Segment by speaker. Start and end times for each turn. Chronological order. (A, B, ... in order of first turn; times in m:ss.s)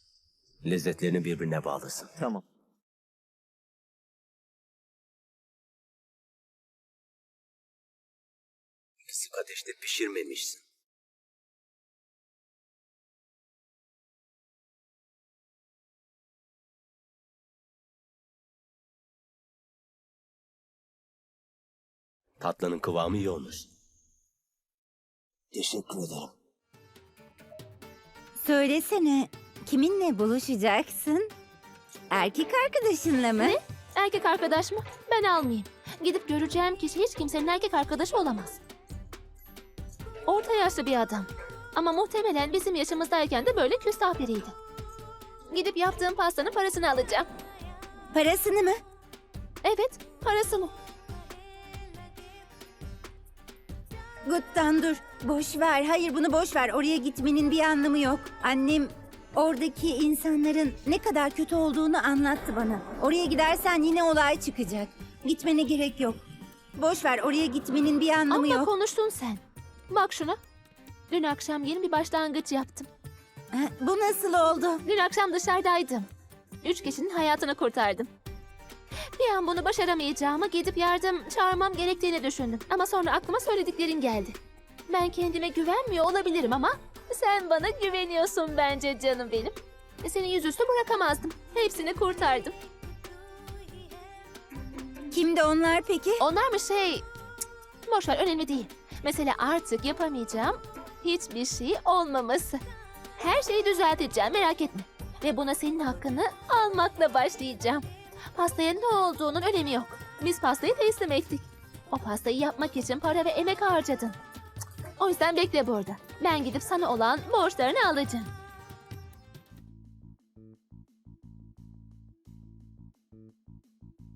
0:00.6-0:02.3 A
0:09.0-0:10.6 A
0:22.4-0:23.7 A
0:25.5-0:26.3 A
0:28.4-0:31.2 B
0:32.1-0:33.6 B
0:33.4-0:38.6 C
0:40.2-0:44.5 C
0:45.5-0:47.3 C
0:48.1-0:48.8 B
0:49.6-0:50.7 C
0:54.2-1:06.2 B
1:06.8-1:08.7 B
1:08.3-1:10.4 C
1:11.1-1:12.9 C
1:13.5-1:14.8 B
1:14.8-1:16.1 C
1:16.6-1:18.1 C
1:19.2-1:24.4 C
1:24.9-1:32.5 C
1:35.1-1:36.2 B
1:36.2-1:37.0 C
1:37.8-1:42.6 C
1:43.2-1:54.2 C
1:55.0-1:58.3 C